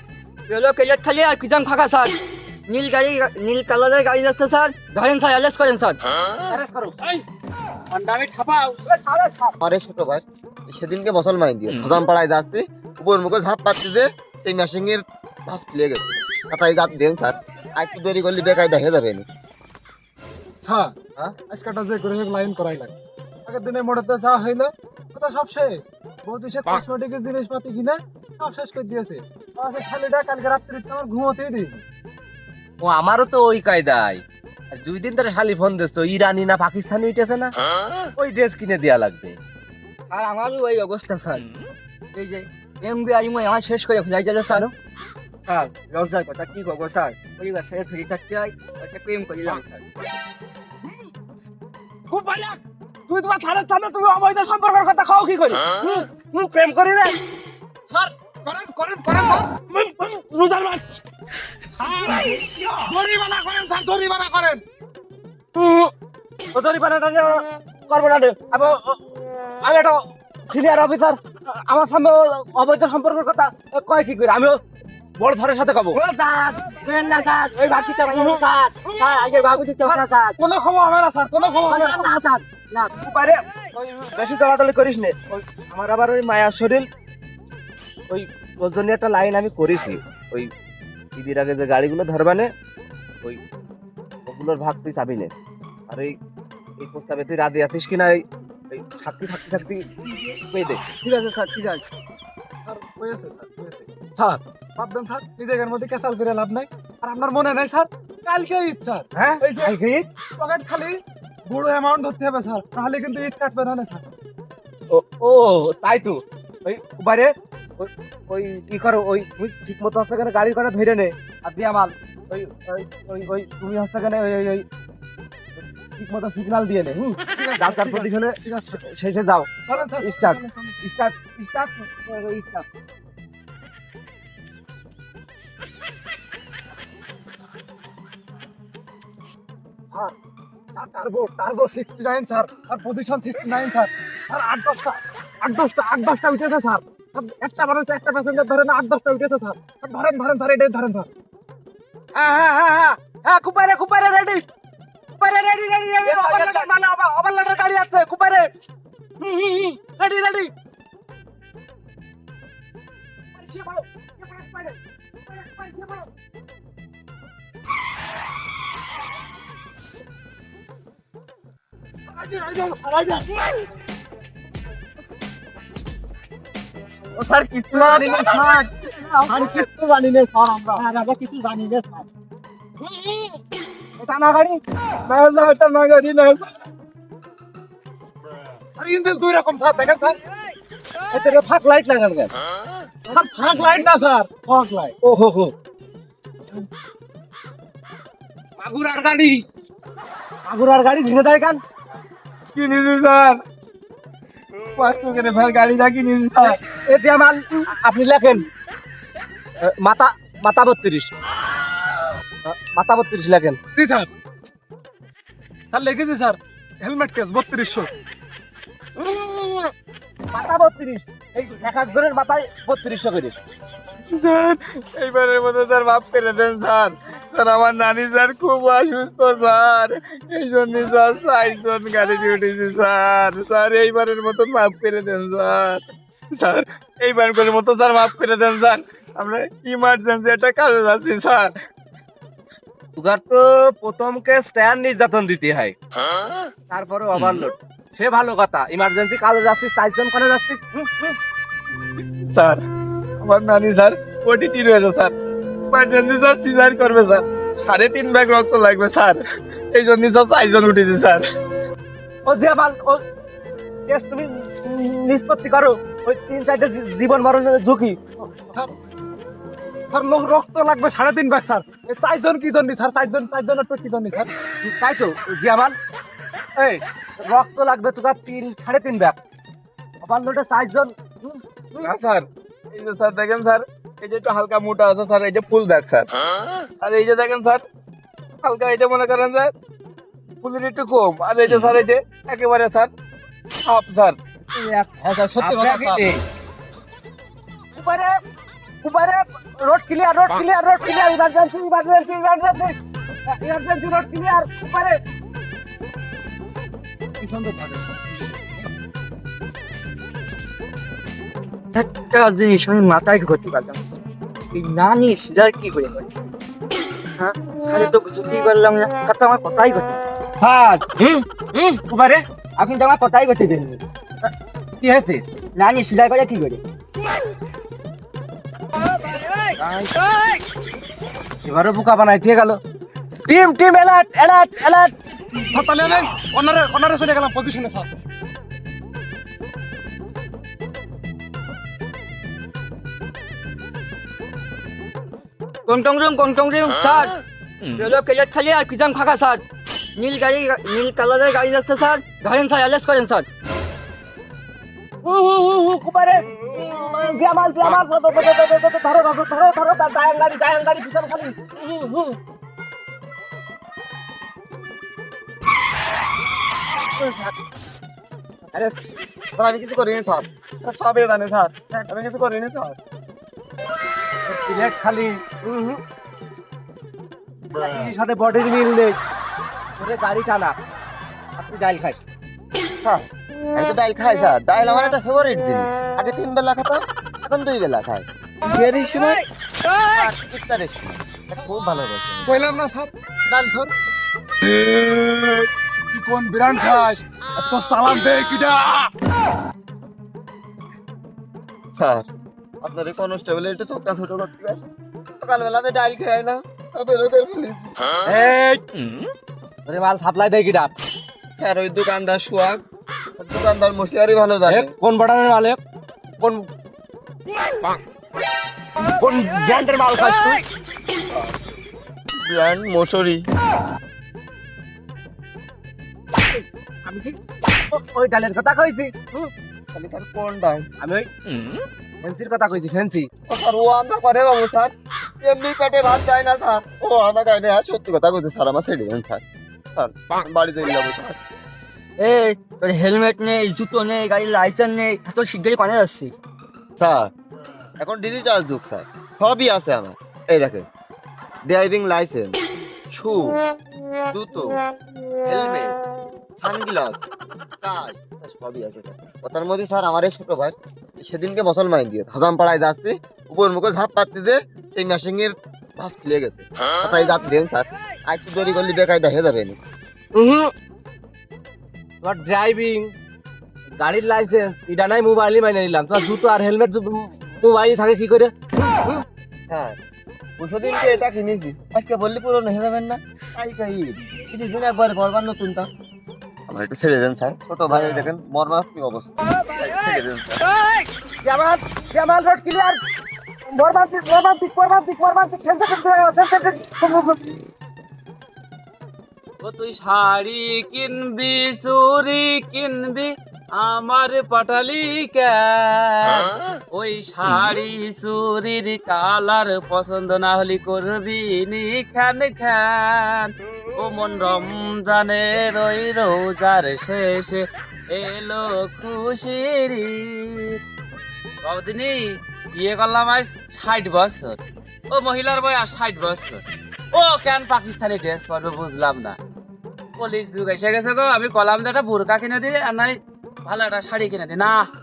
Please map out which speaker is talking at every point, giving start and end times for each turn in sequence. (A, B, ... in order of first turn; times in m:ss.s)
0:00.5-0:02.2 A
0:02.7-0:06.0 A
0:06.5-0:07.0 B
0:07.9-0:08.8 C
0:08.9-0:09.5 B
0:09.6-0:19.2 D
0:20.6-0:22.9 E
0:23.5-0:31.8 E
0:32.8-0:37.6 B
0:38.2-0:39.4 B
0:40.1-0:41.4 A
0:42.1-0:44.7 A
0:45.4-0:49.8 A
0:52.1-0:57.2 B
0:57.9-0:59.5 E
0:59.5-1:01.0 B
1:01.6-1:04.6 E
1:05.5-1:05.9 B
1:06.5-1:09.0 B
1:09.6-1:14.6 B
1:15.2-1:16.0 B
1:16.0-1:20.4 A
1:19.8-1:22.0 E
1:21.7-1:22.9 A
1:22.8-1:26.9 B
1:28.1-1:30.5 B
1:31.1-1:32.5 B
1:34.2-1:35.3 B
1:35.9-1:36.1 B
1:36.8-1:40.8 B
1:41.0-1:41.8 A
1:42.6-1:49.8 E
1:49.1-1:50.1 B
1:50.3-1:54.0 E
1:54.9-2:04.6 B
2:05.6-2:12.7 B
2:07.3-2:08.8 E
2:09.7-2:10.8 E
2:20.7-2:31.1 E
2:32.1-2:34.4 B
2:35.2-2:38.5 B
2:36.0-2:36.7 A
2:39.2-2:40.5 B
2:43.4-2:44.8 B
2:45.3-2:46.1 B
2:52.1-2:53.3 E
2:57.2-2:58.5 F
2:57.7-3:02.0 B
2:59.3-2:59.8 E
3:02.8-3:03.4 B
3:04.0-3:04.6 B
3:05.1-3:06.5 F
3:08.8-3:10.2 E
3:11.1-3:12.3 B
3:13.1-3:14.9 E
3:15.0-3:15.5 B
3:18.6-3:19.4 B
3:20.4-3:21.6 B
3:22.5-3:23.4 F
3:24.8-3:26.6 F
3:26.4-3:28.5 B
3:29.6-3:31.1 B
3:32.4-3:33.6 B
3:33.8-3:34.1 E
3:35.7-3:37.9 E
3:39.0-3:39.7 B
3:40.3-3:43.3 B
3:44.1-4:01.5 F
4:03.0-4:05.8 B
4:06.7-4:11.2 B
4:12.2-4:12.6 F
4:13.2-4:15.1 F
4:15.7-4:19.2 F
4:19.7-4:21.2 F
4:22.2-4:23.0 B
4:23.9-4:28.3 B
4:29.9-4:34.3 E
4:34.6-4:35.8 B
4:36.6-4:39.2 B
4:40.0-4:41.4 B
4:41.8-4:46.1 F
4:46.8-4:47.6 F
4:48.4-4:49.5 F
4:50.4-4:52.9 F
4:53.6-4:54.2 F
4:54.5-4:56.2 B
4:55.4-4:56.1 F
4:57.7-4:58.2 B
4:58.8-5:02.8 B
5:03.2-5:05.0 B
5:07.2-5:08.6 E
5:11.7-5:13.8 A
5:14.5-5:16.1 A
5:17.2-5:20.0 A
5:20.4-5:22.2 B
5:22.6-5:23.8 A
5:24.8-5:25.2 B
5:25.6-5:26.6 A
5:29.6-5:29.9 B
5:31.4-5:32.6 B
5:33.2-5:35.0 B
5:35.5-5:37.9 E
5:45.6-5:47.2 A
5:47.8-5:49.4 A
5:50.0-5:53.2 A
5:55.0-6:02.2 B
6:06.8-6:07.3 B
6:08.5-6:08.8 B
6:09.4-6:12.8 D
6:14.3-6:15.8 B
6:17.6-6:19.0 B
6:19.8-6:20.6 B
6:21.4-6:22.0 B
6:22.8-6:29.2 D
6:29.9-6:32.5 D
6:32.2-6:33.7 E
6:34.4-6:38.9 E
6:41.7-6:42.1 D
6:42.6-6:44.6 D
6:45.2-6:47.8 D
6:48.1-6:48.6 B
6:49.6-6:50.7 B
6:51.3-6:52.6 D
6:53.2-6:54.7 D
6:54.5-6:55.6 B
6:56.2-6:56.5 B
6:59.0-7:00.4 B
7:01.0-7:01.3 D
7:02.2-7:03.2 D
7:06.1-7:09.3 B
7:09.7-7:10.7 D
7:10.8-7:11.1 B
7:12.0-7:13.1 B
7:13.3-7:19.2 D
7:19.8-7:21.2 D
7:22.0-7:26.1 A
7:26.8-7:27.1 D
7:27.8-7:30.6 D
7:31.4-7:32.4 D
7:32.9-7:33.4 D
7:34.1-7:34.6 D
7:35.2-7:35.8 D
7:36.4-7:37.1 D
7:37.6-7:49.6 D
7:50.1-7:50.5 B
7:52.0-7:52.9 B
7:53.8-7:59.0 B
7:59.5-7:59.8 D
8:00.4-8:05.7 D
8:06.5-8:10.4 D
8:11.2-8:12.9 B
8:13.5-8:17.4 B
8:19.4-8:40.6 C
8:41.4-8:44.4 C
8:44.9-8:49.2 C
8:50.0-8:54.6 C